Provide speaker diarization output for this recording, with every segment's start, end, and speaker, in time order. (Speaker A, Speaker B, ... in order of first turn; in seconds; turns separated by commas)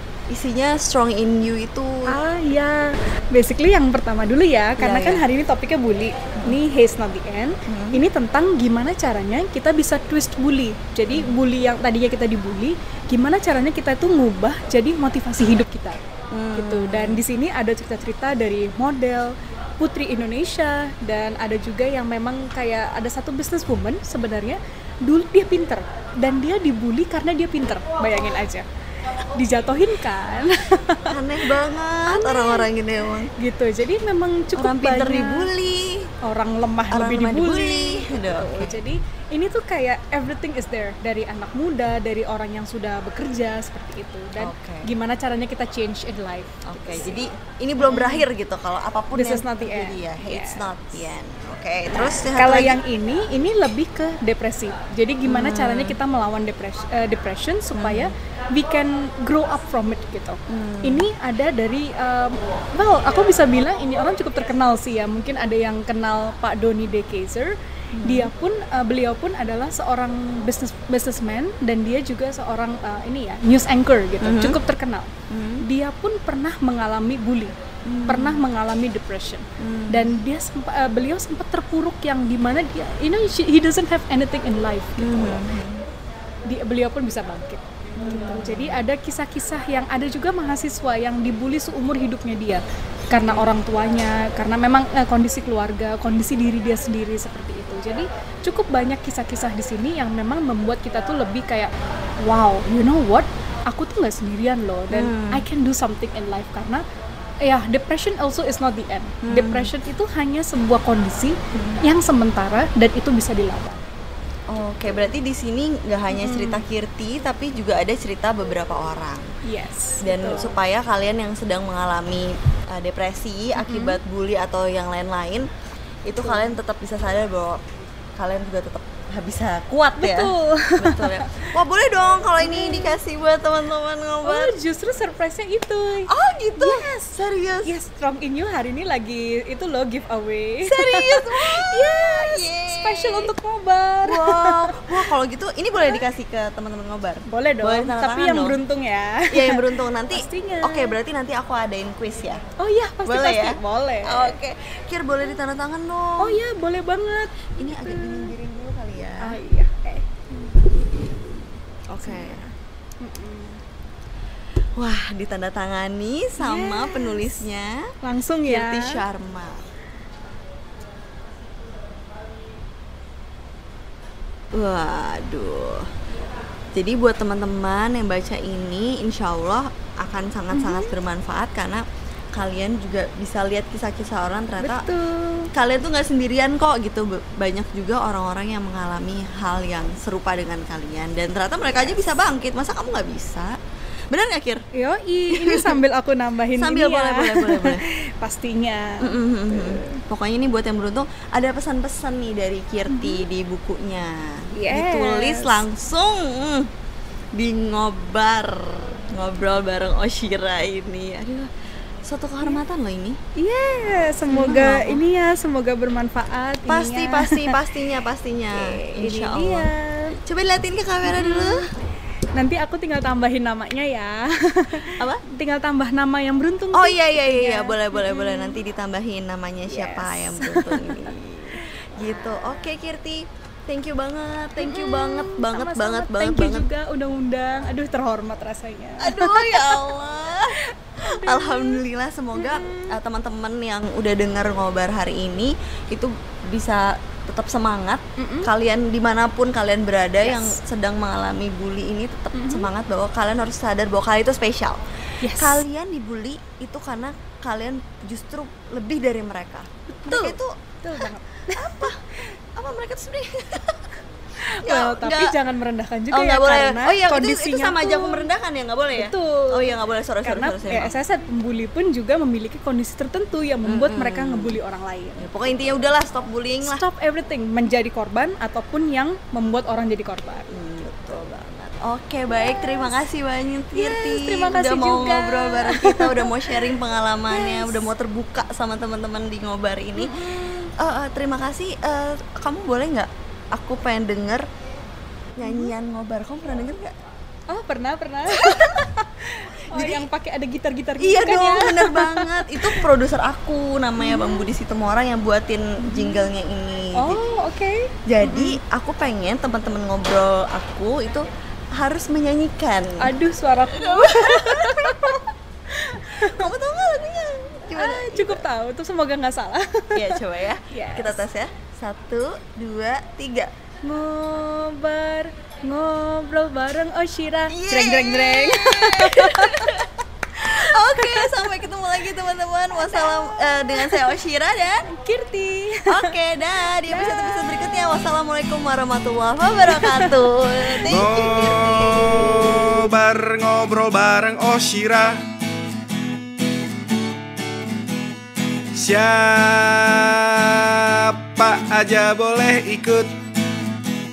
Speaker A: 0.3-2.2, Speaker B: 2.1-16.0, Speaker A: 4.8-5.2, Speaker A: 7.7-8.0, Speaker A: 16.3-17.2, Speaker B: 16.6-28.6, Speaker B: 29.3-31.6, Speaker A: 31.1-33.3, Speaker B: 32.1-32.7, Speaker B: 33.4-35.5, Speaker A: 34.5-36.1, Speaker B: 36.2-47.3, Speaker A: 36.9-38.8, Speaker A: 44.4-44.9, Speaker A: 46.7-52.8, Speaker B: 47.8-48.2, Speaker B: 49.1-50.7, Speaker B: 51.9-77.5, Speaker A: 55.2-56.0, Speaker A: 57.7-58.1, Speaker A: 60.5-61.1, Speaker A: 68.0-68.3, Speaker A: 74.2-74.6, Speaker A: 75.3-75.6, Speaker A: 77.9-78.4, Speaker B: 78.1-85.4, Speaker A: 79.6-80.2, Speaker A: 85.0-85.8, Speaker B: 86.5-101.7, Speaker A: 88.0-88.8, Speaker A: 93.2-93.5, Speaker B: 102.2-106.8, Speaker A: 104.9-105.5, Speaker B: 107.4-113.8, Speaker A: 109.2-109.7, Speaker A: 111.5-111.8, Speaker A: 114.5-119.3, Speaker B: 116.1-116.6, Speaker B: 119.4-120.6, Speaker A: 120.0-125.5, Speaker B: 123.6-124.0, Speaker A: 126.1-127.7, Speaker B: 126.2-126.5, Speaker A: 128.2-134.6, Speaker B: 130.0-131.5, Speaker B: 132.4-133.0, Speaker B: 134.2-137.1, Speaker A: 136.1-137.7, Speaker B: 137.6-145.1, Speaker A: 140.6-143.3, Speaker A: 144.0-148.6, Speaker B: 147.3-151.0, Speaker A: 149.3-152.4, Speaker B: 152.6-154.4, Speaker A: 153.1-156.4, Speaker B: 156.2-158.3, Speaker A: 157.6-159.4, Speaker B: 159.2-160.3, Speaker A: 161.9-162.4, Speaker B: 162.0-163.6, Speaker A: 164.8-167.9, Speaker B: 166.4-167.2, Speaker B: 168.0-169.0, Speaker A: 168.4-169.7, Speaker A: 174.5-175.9, Speaker A: 176.7-181.8, Speaker B: 180.5-181.0, Speaker A: 182.3-184.9, Speaker B: 184.6-185.5, Speaker A: 185.5-193.6, Speaker A: 194.1-194.6, Speaker B: 194.7-200.0, Speaker A: 195.3-195.8, Speaker A: 196.5-197.8, Speaker A: 199.0-206.7, Speaker B: 202.9-203.2, Speaker B: 204.5-205.7, Speaker A: 207.3-211.5, Speaker A: 212.0-213.2, Speaker B: 213.4-217.6, Speaker A: 214.3-215.0, Speaker A: 216.7-219.7, Speaker B: 218.5-220.2, Speaker A: 220.2-221.7, Speaker B: 221.1-221.7, Speaker B: 222.3-228.6, Speaker A: 224.8-225.2, Speaker A: 226.7-236.7, Speaker B: 229.7-231.1, Speaker B: 234.6-239.9, Speaker A: 239.0-263.9, Speaker B: 240.5-241.8, Speaker B: 242.4-242.9, Speaker B: 248.2-248.5, Speaker B: 250.2-250.6, Speaker B: 252.3-252.7, Speaker B: 255.2-255.6, Speaker B: 259.9-261.9, Speaker B: 264.4-268.3, Speaker A: 264.6-265.4, Speaker A: 266.1-270.9, Speaker B: 268.9-275.3, Speaker A: 273.6-274.6, Speaker A: 275.2-276.8, Speaker B: 276.6-280.6, Speaker A: 280.5-294.4, Speaker B: 282.4-282.9, Speaker B: 283.7-286.7, Speaker B: 287.3-287.9, Speaker B: 290.0-290.5, Speaker A: 295.4-296.9, Speaker B: 295.4-295.7, Speaker B: 297.5-302.9, Speaker A: 298.3-298.9, Speaker A: 299.7-300.1, Speaker A: 301.0-307.2, Speaker B: 304.0-304.5, Speaker B: 305.8-306.3, Speaker B: 307.0-308.6, Speaker A: 308.1-313.1, Speaker B: 313.0-316.5, Speaker A: 313.7-315.3, Speaker A: 316.1-318.5, Speaker B: 317.8-321.2, Speaker A: 319.9-323.5, Speaker B: 323.8-329.8, Speaker A: 327.5-334.8, Speaker B: 330.4-331.6, Speaker B: 332.7-334.1, Speaker B: 334.9-336.2, Speaker A: 335.9-342.8, Speaker B: 336.9-337.6, Speaker B: 339.7-340.8, Speaker C: 340.9-345.2, Speaker C: 348.7-353.2